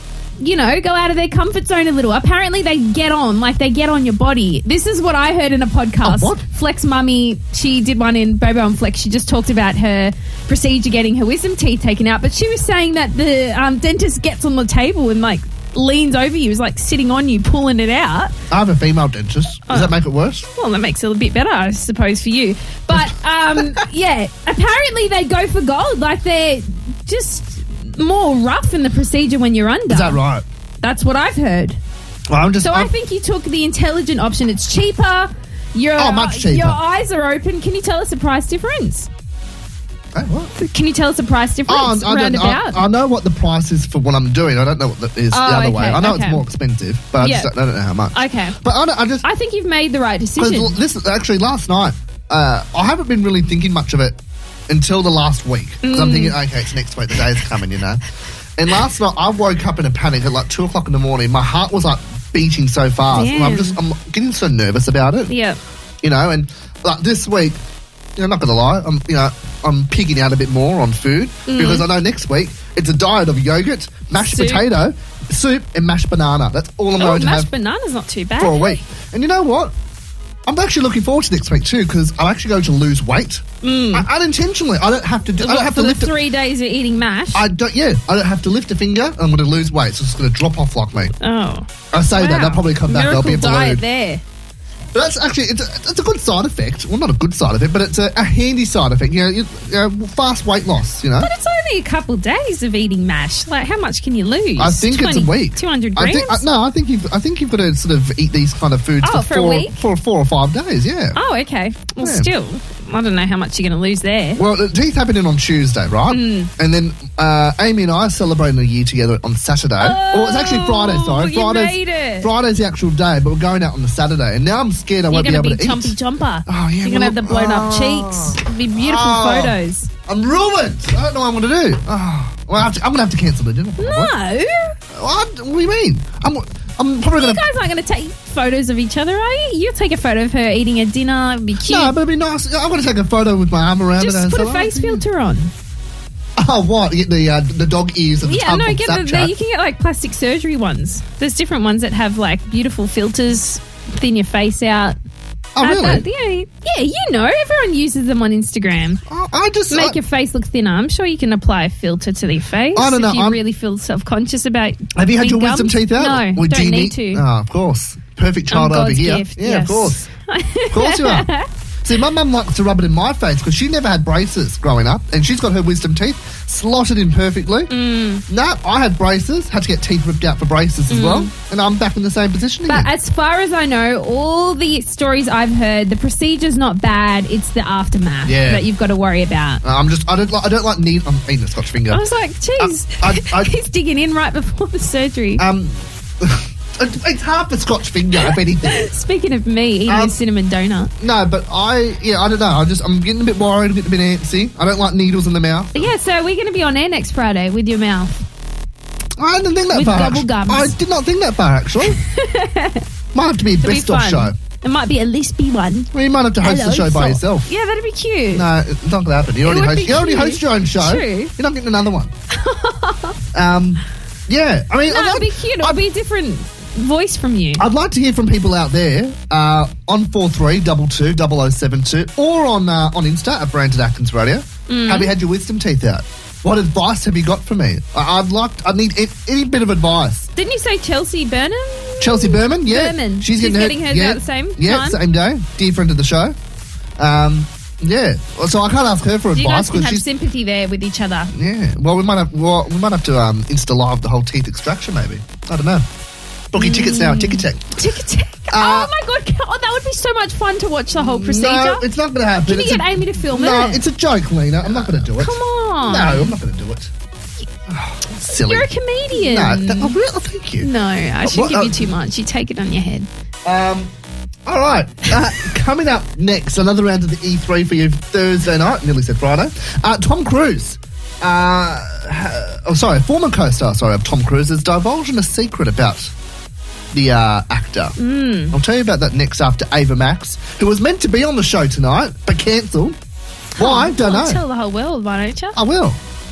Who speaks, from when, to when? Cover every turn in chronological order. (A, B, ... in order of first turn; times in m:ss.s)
0:00.4-0:18.3 A
0:06.0-0:06.4 B
0:18.5-0:20.4 B
0:19.7-0:19.9 A
0:20.5-0:30.2 A
0:22.9-0:23.8 B
0:29.9-0:30.4 B
0:30.8-0:31.8 A
0:32.3-0:32.9 B
0:32.6-0:39.1 A
0:36.0-0:36.8 B
0:40.1-0:40.5 B
0:40.5-0:42.8 A
0:41.7-0:49.2 B
0:45.3-0:46.4 A
0:47.2-0:47.5 A
0:48.1-0:48.6 A
0:49.2-0:50.8 A
0:50.4-0:54.2 B
0:54.7-0:58.0 B
0:55.8-0:56.4 A
0:58.6-1:05.3 B
1:03.1-1:03.8 A
1:05.3-1:05.6 A
1:06.0-1:07.6 B
1:08.2-1:17.5 B
1:11.5-1:11.8 A
1:14.2-1:14.6 A
1:17.0-1:18.8 A
1:18.4-1:19.7 B
1:20.4-1:26.2 B
1:23.6-1:24.1 A
1:25.4-1:27.4 A
1:27.3-1:31.1 B
1:31.2-1:34.2 A
1:31.9-1:33.8 B
1:34.9-1:41.3 B
1:41.2-1:46.4 A
1:44.6-1:51.2 B
1:49.0-1:49.8 A
1:51.1-1:54.4 A
1:52.0-1:52.3 B
1:54.4-2:05.9 B
1:56.1-1:56.5 A
1:59.8-2:02.3 A
2:05.1-2:09.9 A
2:06.5-2:14.1 B
2:13.8-2:14.7 A
2:14.9-2:17.4 B
2:17.1-2:21.9 A
2:21.6-2:25.0 B
2:24.0-2:25.5 A
2:26.4-2:29.3 B
2:28.2-2:35.0 A
2:35.5-2:36.0 B
2:35.6-2:39.0 A
2:39.1-2:40.0 B
2:39.7-2:47.2 A
2:42.7-2:43.4 B
2:44.9-2:50.0 B
2:48.5-2:51.5 A
2:50.7-2:51.3 B
2:51.8-2:57.7 B
2:57.7-2:58.2 A
2:58.3-3:02.9 B
3:00.9-3:01.3 A
3:02.7-3:09.6 A
3:08.2-3:08.6 B
3:09.6-3:12.0 B
3:11.9-3:15.4 A
3:12.6-3:13.5 B
3:15.4-3:18.9 B
3:18.7-3:20.9 A
3:19.9-3:20.2 B
3:21.0-3:25.9 B
3:25.7-3:28.2 A
3:29.2-3:32.0 B
3:29.7-3:30.8 A
3:31.8-3:32.8 A
3:33.1-3:34.3 B
3:33.6-3:35.9 A
3:35.9-3:37.5 B
3:36.4-3:38.5 A
3:38.3-3:42.1 B
3:39.4-3:41.3 A
3:42.3-3:43.2 A
3:43.3-3:45.8 B
3:44.9-3:47.6 A
3:47.6-4:00.3 B
3:54.7-3:55.1 A
4:00.4-4:05.0 A
4:02.0-4:06.4 B
4:07.0-4:10.1 B
4:09.3-4:11.3 A
4:11.3-4:15.8 B
4:16.5-4:17.8 B
4:16.6-4:21.8 A
4:18.5-4:18.9 B
4:20.9-4:26.9 B
4:22.4-4:23.8 A
4:24.8-4:26.3 A
4:27.7-4:30.7 B
4:28.3-4:30.0 A
4:30.6-4:33.1 A
4:31.2-4:31.9 B
4:33.4-4:33.9 B
4:34.4-4:46.1 B
4:46.9-4:48.0 B
4:48.0-4:48.6 A
4:48.5-4:53.0 B
4:53.6-4:54.4 B
4:53.6-4:55.6 A
4:55.5-4:56.0 B